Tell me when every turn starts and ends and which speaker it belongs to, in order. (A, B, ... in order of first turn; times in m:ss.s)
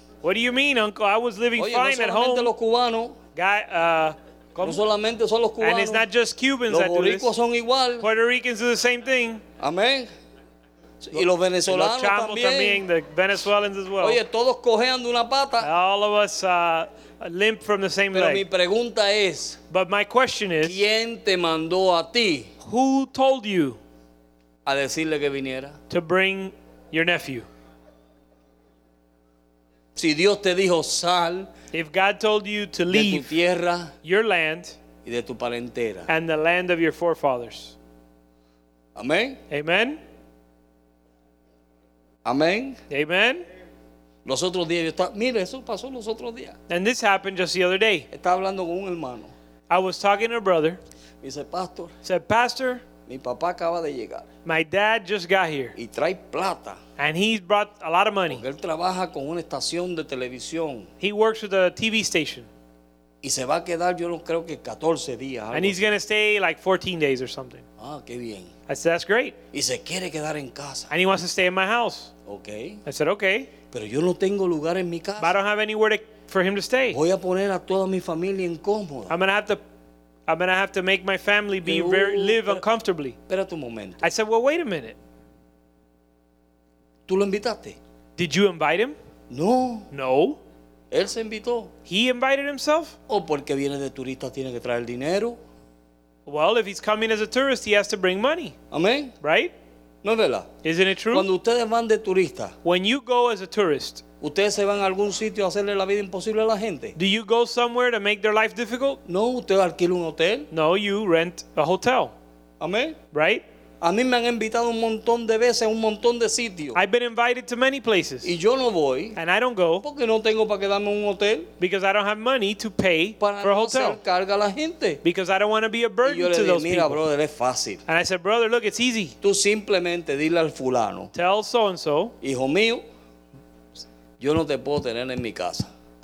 0:00.2-0:02.5 A
0:01.6-0:03.2 B
0:03.4-0:04.8 A
0:04.6-0:06.1 B
0:05.6-0:07.3 A
0:06.7-0:08.1 B
0:08.0-0:09.4 A
0:09.6-0:10.1 B
0:11.0-0:12.8 B
0:11.6-0:14.2 A
0:14.0-0:15.7 B
0:15.6-0:18.4 A
0:18.1-0:19.6 B
0:19.7-0:20.8 A
0:20.6-0:22.5 B
0:22.6-0:23.8 A
0:24.6-0:25.8 B
0:25.9-0:27.5 A
0:30.0-0:31.5 B
0:31.7-0:33.3 A
0:32.9-0:33.9 B
0:34.0-0:34.8 A
0:35.0-0:36.1 B
0:36.1-0:37.7 A
0:38.9-0:39.4 B
0:39.5-0:40.0 A
0:42.2-0:42.8 B
0:42.9-0:43.4 A
0:44.2-0:46.6 B
0:46.7-0:48.1 A
0:48.1-0:49.3 B
0:49.7-0:50.8 A
0:51.2-0:52.0 B
0:52.0-0:52.8 A
0:53.0-0:54.3 B
0:54.4-0:55.8 A
0:55.8-0:56.8 B
0:57.0-0:58.4 A
0:58.3-1:00.9 B
1:01.0-1:02.5 A
1:03.2-1:05.8 B
1:05.5-1:07.6 A
1:07.8-1:08.5 B
1:08.7-1:09.4 A
1:09.5-1:10.9 B
1:10.9-1:12.1 A
1:12.2-1:12.8 B
1:12.8-1:13.5 A
1:13.7-1:15.4 B
1:15.2-1:17.0 A
1:16.9-1:19.1 B
1:19.1-1:19.6 A
1:20.3-1:23.2 A
1:21.6-1:22.6 B
1:23.3-1:24.1 B
1:24.0-1:25.0 A
1:27.1-1:27.8 B
1:28.2-1:29.0 A
1:29.3-1:29.9 B
1:29.9-1:30.4 A
1:30.9-1:31.7 B
1:31.8-1:33.0 A
1:33.1-1:35.4 B
1:36.2-1:38.5 A
1:38.7-1:39.1 B
1:39.2-1:39.5 A
1:40.0-1:40.5 B
1:40.6-1:41.3 A
1:41.1-1:42.5 B
1:42.6-1:44.0 A
1:44.2-1:47.0 B
1:47.0-1:49.0 A
1:49.0-1:50.5 B
1:50.5-1:52.1 A
1:52.6-1:53.0 B
1:53.1-1:53.4 A
1:53.8-1:56.8 B
1:56.7-1:58.3 A
1:58.2-1:59.2 B
1:59.2-1:59.8 A
1:59.8-2:01.5 B
2:01.6-2:04.0 A
2:03.2-2:05.0 B
2:05.0-2:07.0 A
2:06.0-2:07.8 B
2:07.9-2:09.1 A
2:09.2-2:11.1 B
2:11.1-2:12.1 A
2:12.2-2:12.8 B
2:14.2-2:15.7 B